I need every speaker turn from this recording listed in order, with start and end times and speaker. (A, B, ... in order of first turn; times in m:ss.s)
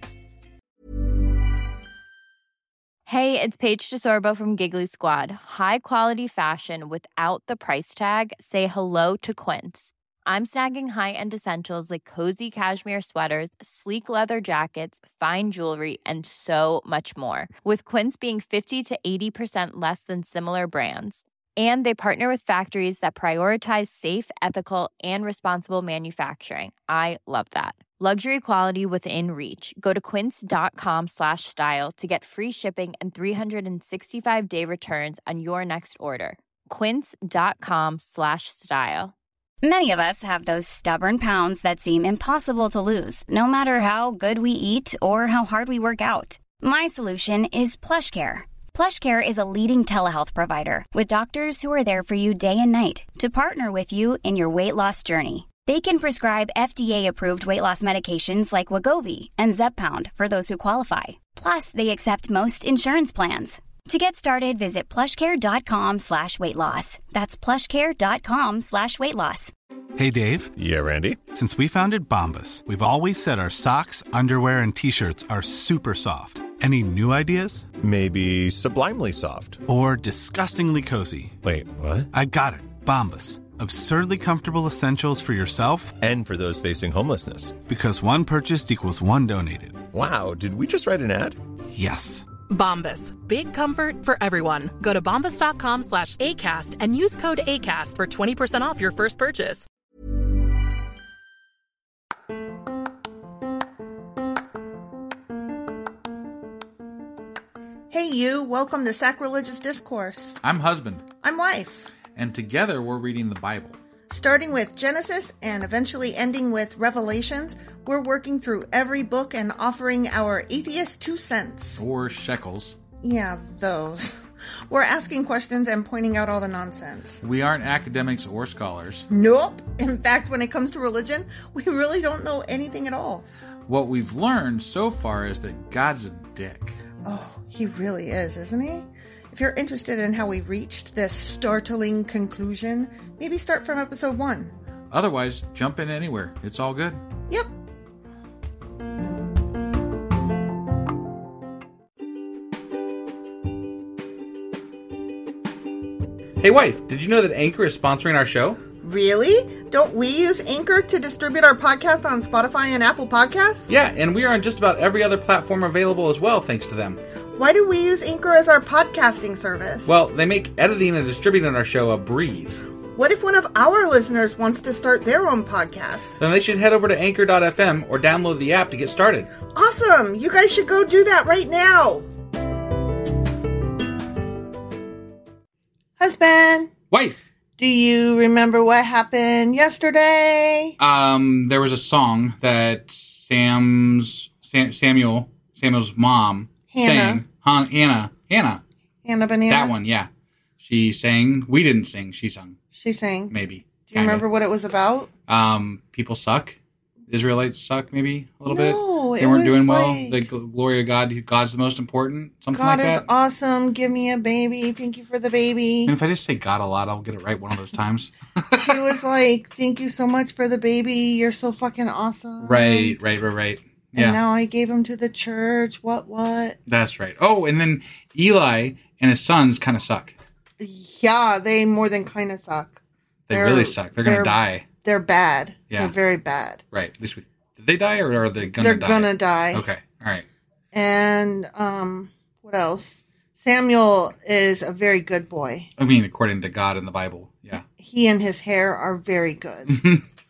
0:03.1-0:39.1 A
0:39.6-1:09.5 B
1:10.0-1:10.5 C
1:10.6-1:11.3 D
1:11.3-1:17.6 C
1:17.8-1:19.6 D
1:19.7-1:21.3 C
1:21.4-1:22.1 D
1:22.1-1:26.0 C
1:26.0-1:27.6 D
1:27.7-1:29.8 C
1:29.9-1:31.4 D
1:31.7-1:32.3 C
1:32.5-1:39.6 E
1:47.9-1:50.4 F
1:50.4-1:51.0 G
1:51.2-1:51.9 F
1:52.1-1:53.8 G
1:54.1-2:01.8 F
2:01.8-2:02.8 G
2:03.0-2:04.2 F
2:04.7-2:07.2 F
2:07.2-2:09.1 G
2:09.1-2:13.2 F
2:13.7-2:16.8 G
2:17.0-2:24.5 F
2:24.9-2:27.0 G
2:36.4-2:38.6 G
2:38.8-2:43.7 F
2:43.7-2:47.0 G
2:47.4-2:49.9 F
2:49.9-2:52.6 G
2:53.0-2:56.1 F
2:56.2-2:59.3 G
2:59.5-3:02.1 F
3:06.0-3:06.7 F
3:06.9-3:07.2 G
3:07.6-3:10.7 F
3:10.8-3:18.6 G
3:16.7-3:17.2 F
3:19.0-3:19.7 F
3:19.5-3:20.1 G
3:20.6-3:22.6 G
3:22.7-3:23.3 F
3:23.3-3:24.2 G
3:23.9-3:25.1 F
3:25.3-3:26.6 G
3:27.1-3:33.1 G
3:28.5-3:30.2 F
3:32.5-3:35.9 F
3:35.9-3:38.9 G
3:38.6-3:43.0 F
3:42.4-3:44.2 G
3:44.0-3:46.6 F
3:46.7-3:50.2 G
3:50.6-3:52.8 F
3:53.3-3:54.6 G
3:53.3-3:56.6 F
3:56.7-4:00.2 G
3:58.6-3:59.6 F
4:00.7-4:05.7 F
4:05.8-4:07.6 G
4:07.8-4:09.8 F
4:09.7-4:10.0 G